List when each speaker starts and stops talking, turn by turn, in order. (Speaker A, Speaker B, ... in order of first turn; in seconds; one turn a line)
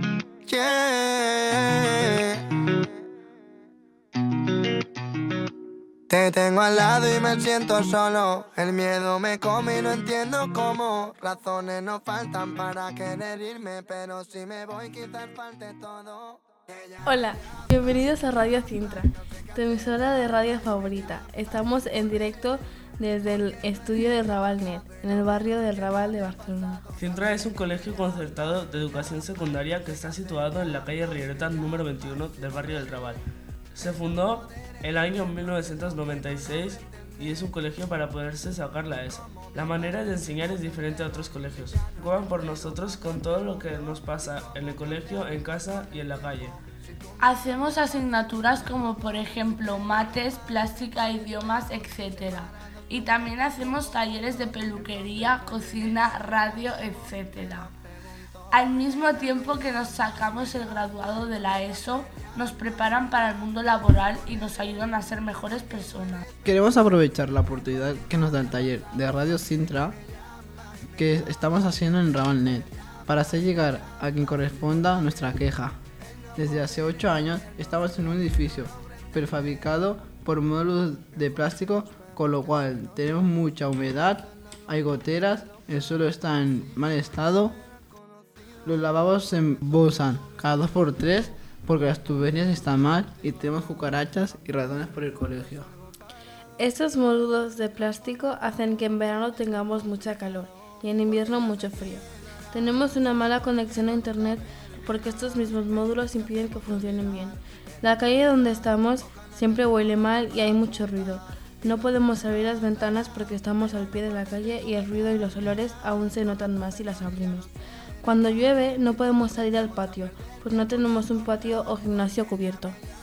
Speaker A: 0.5-2.4
Speaker A: 6.1-17.1
Speaker B: 17.0-26.8
Speaker C: 26.9-33.2
Speaker C: 33.7-46.6
Speaker D: 47.2-57.7
Speaker D: 58.5-66.2
Speaker E: 66.4-70.0
Speaker E: 71.0-75.8
Speaker E: 76.4-87.6
Speaker E: 88.7-95.7
Speaker B: 96.6-117.5
Speaker B: 118.0-122.8